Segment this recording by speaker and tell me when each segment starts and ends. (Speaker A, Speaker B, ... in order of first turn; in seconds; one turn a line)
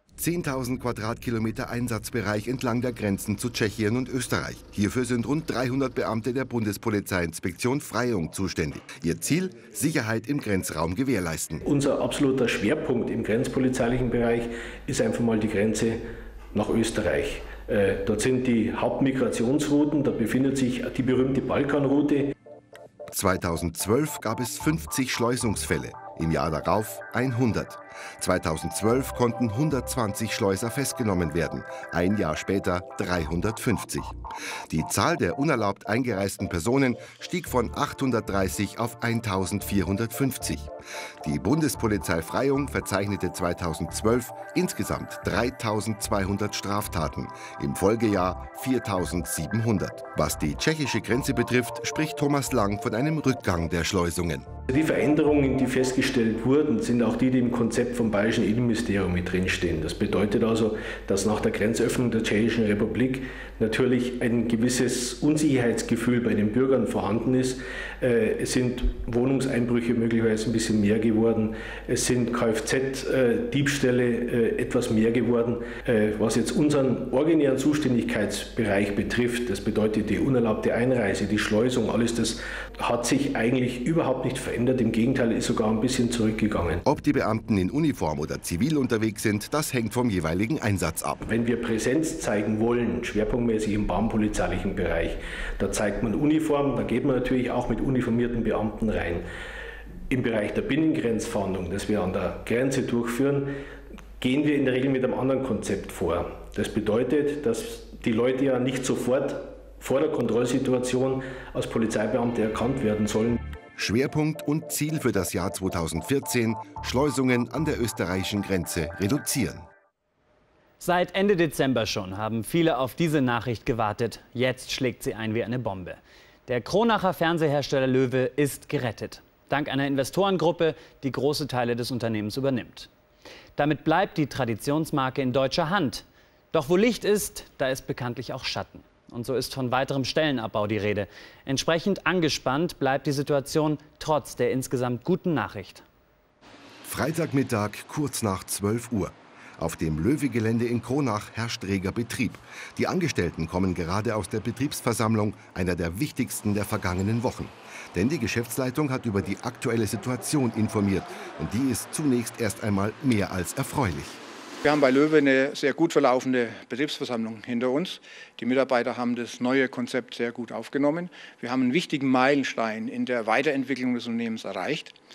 Speaker A: 0.2-11.6
Speaker B: 11.6-22.3
Speaker A: 23.1-34.2
Speaker A: 34.7-54.5
Speaker B: 54.7-86.8
Speaker A: 86.8-91.2
Speaker B: 91.2-99.2
Speaker B: 100.1-103.5
Speaker B: 104.2-113.4
Speaker A: 113.8-119.7
Speaker C: 120.8-132.9
Speaker C: 133.6-145.8
Speaker A: 146.8-164.2
Speaker D: 164.6-174.9